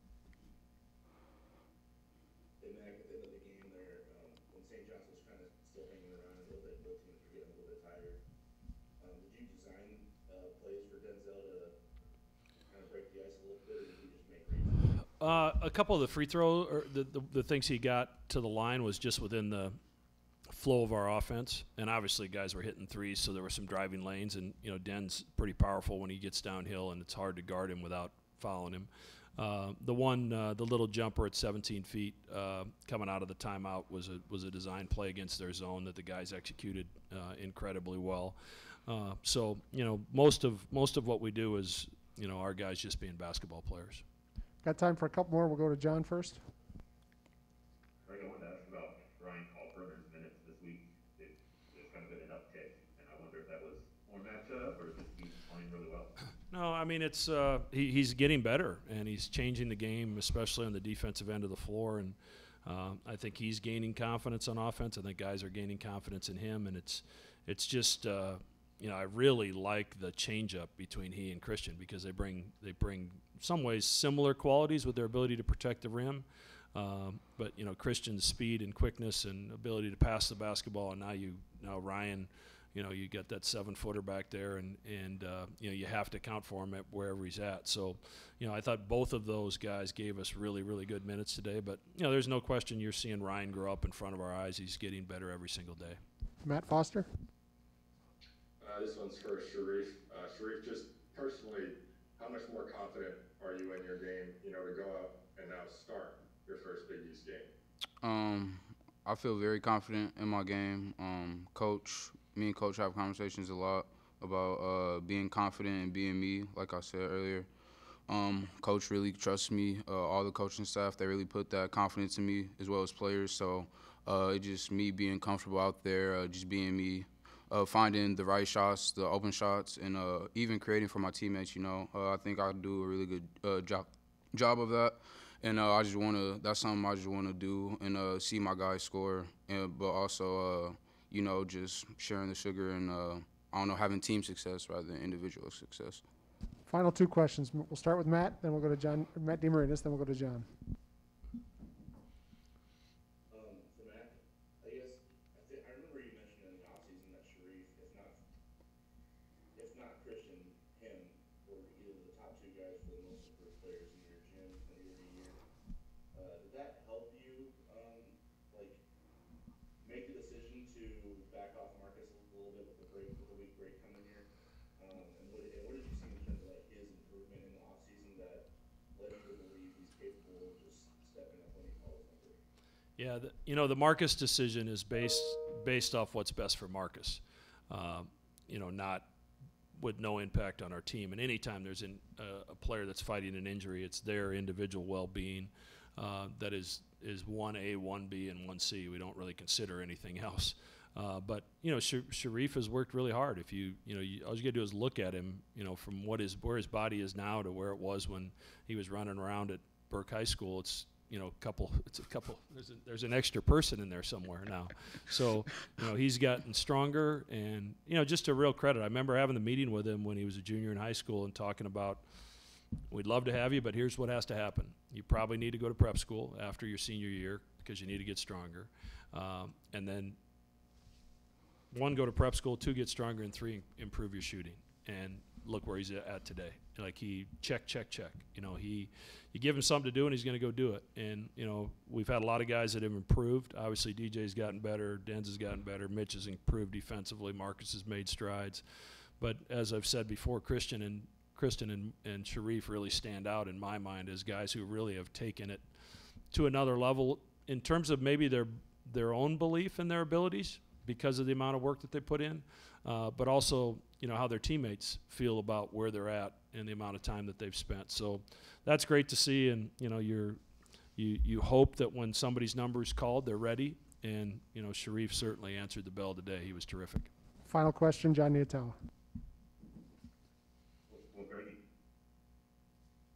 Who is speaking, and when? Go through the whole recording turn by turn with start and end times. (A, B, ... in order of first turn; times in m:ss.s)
0:02.6-0:08.2 A
0:09.0-0:11.8 A
0:12.7-0:15.1 A
0:15.2-0:19.8 B
0:20.5-0:38.4 B
0:38.9-0:44.0 B
0:44.6-0:46.4 C
0:48.0-0:56.1 D
0:56.5-1:36.0 B
1:36.4-1:37.1 C
1:38.6-1:47.5 E
1:48.0-1:57.5 F
1:58.1-2:26.0 F
2:26.7-2:30.5 C
2:33.3-2:38.2 A
2:39.6-2:45.4 A
2:46.1-2:48.8 A
2:49.8-2:54.3 A
2:54.8-3:02.4 A
3:03.0-3:09.1 B
3:09.8-3:42.0 B
3:42.9-3:50.2 B
3:51.7-4:08.6 B
4:09.2-4:15.6 B
4:16.3-4:30.4 B
4:31.0-4:37.1 B
4:37.4-4:38.8 C
4:40.9-4:41.6 D